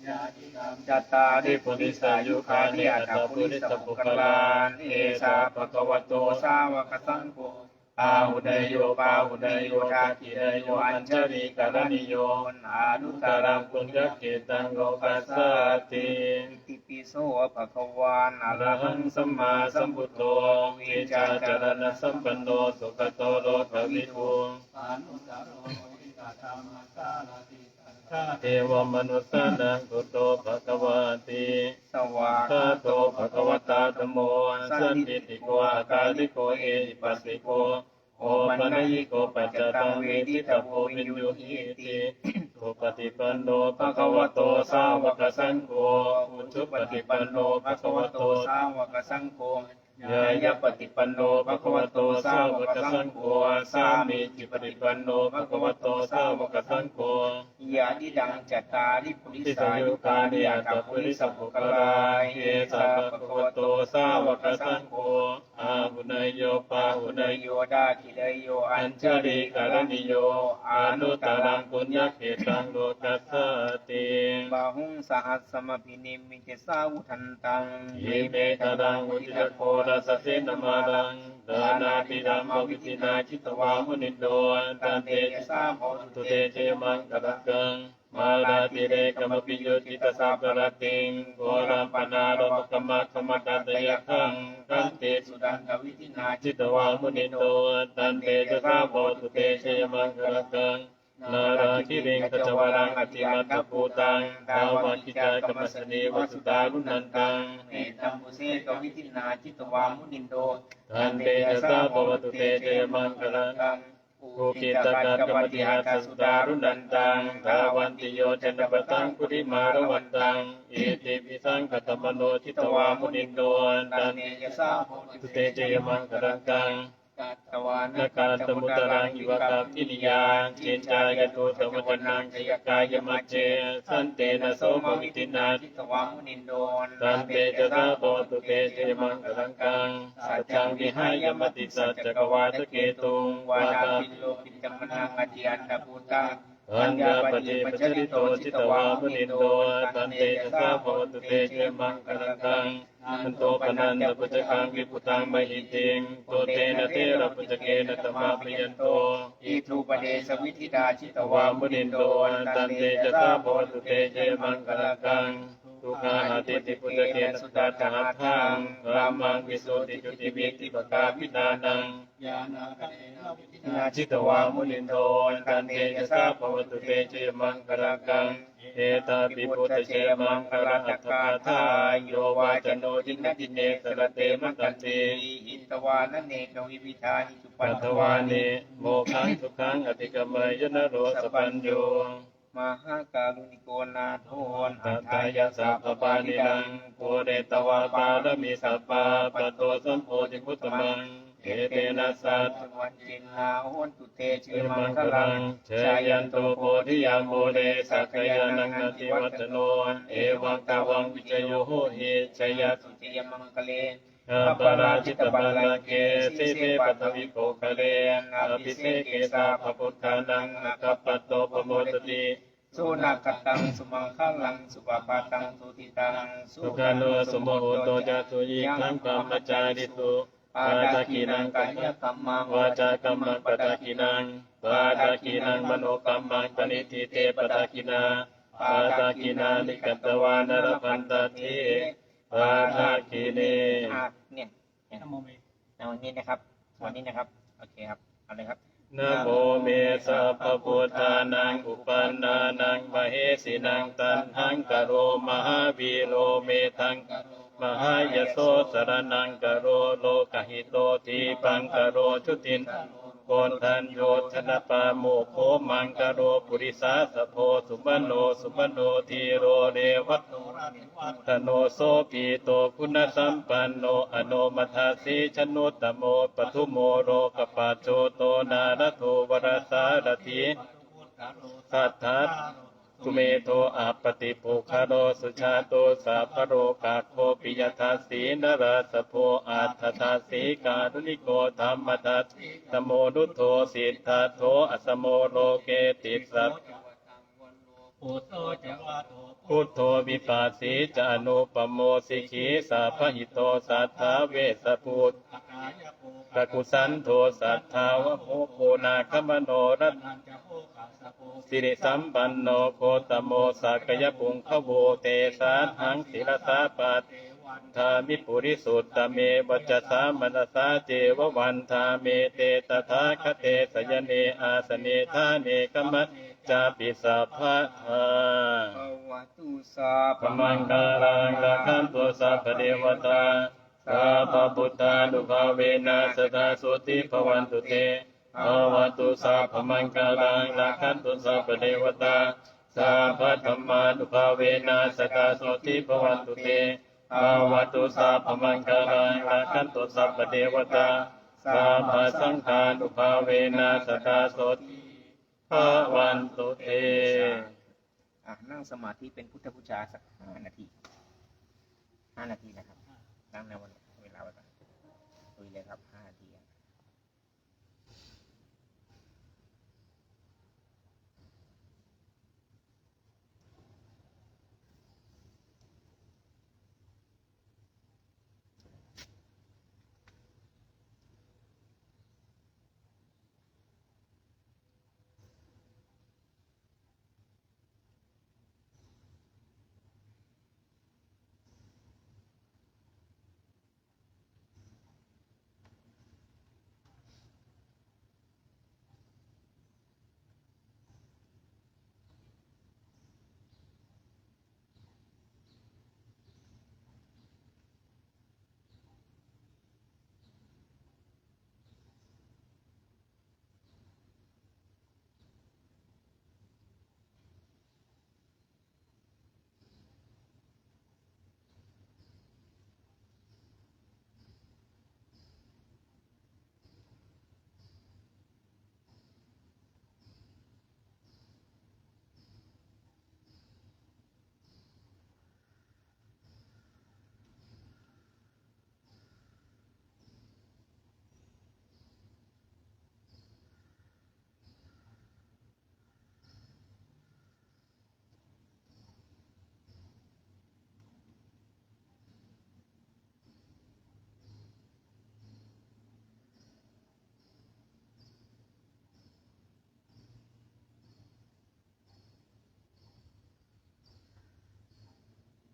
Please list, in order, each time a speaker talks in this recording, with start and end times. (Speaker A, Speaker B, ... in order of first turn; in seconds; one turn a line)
Speaker A: 0.2-0.7
Speaker B: 0.7-24.9
Speaker C: 1.4-6.4
Speaker C: 8.0-16.5
Speaker C: 18.5-24.6
Speaker A: 24.8-28.1
Speaker C: 28.2-31.8
Speaker B: 31.9-42.5
Speaker C: 32.3-48.5
Speaker B: 43.7-56.9
Speaker C: 50.0-57.5
Speaker B: 57.6-65.7
Speaker C: 59.4-67.4
Speaker B: 66.7-72.6
Speaker C: 68.7-74.5
Speaker B: 74.5-84.0
Speaker C: 77.9-95.2
Speaker B: 84.8-87.4
Speaker B: 88.1-100.6
Speaker C: 96.4-107.7
Speaker B: 101.2-120.4
Speaker C: 110.9-113.6
Speaker C: 114.4-124.3
Speaker B: 121.7-126.6
Speaker C: 125.2-126.9
Speaker B: 127.2-165.4
Speaker C: 127.9-135.6
Speaker C: 137.0-144.2
Speaker C: 146.7-159.5
Speaker C: 161.1-172.1
Speaker B: 166.0-171.9
Speaker A: 172.2-173.6
Speaker B: 172.8-178.5
Speaker C: 173.7-185.2
Speaker B: 179.1-189.4
Speaker C: 187.6-192.2
Speaker B: 190.8-191.9
Speaker B: 192.5-245.2
Speaker C: 194.5-202.6
Speaker C: 204.5-212.8
Speaker C: 214.3-222.4
Speaker C: 226.6-244.0
Speaker B: 245.8-254.8
Speaker C: 248.9-262.7
Speaker B: 255.4-256.5
Speaker B: 257.2-259.2
Speaker B: 261.3-264.7
Speaker C: 263.3-270.4
Speaker B: 265.6-266.9
Speaker B: 270.0-271.6
Speaker C: 271.2-280.6
Speaker A: 280.7-281.5
Speaker C: 281.6-296.6
Speaker A: 298.0-298.7
Speaker C: 298.2-310.4
Speaker A: 305.9-306.2
Speaker A: 310.4-311.3
Speaker C: 311.3-328.8
Speaker B: 328.7-332.0
Speaker C: 330.2-354.8
Speaker B: 332.6-333.2
Speaker B: 333.8-354.9
Speaker C: 355.5-357.5
Speaker B: 355.5-357.6
Speaker B: 358.2-360.7
Speaker B: 362.1-362.8
Speaker B: 363.3-364.5
Speaker B: 365.4-366.4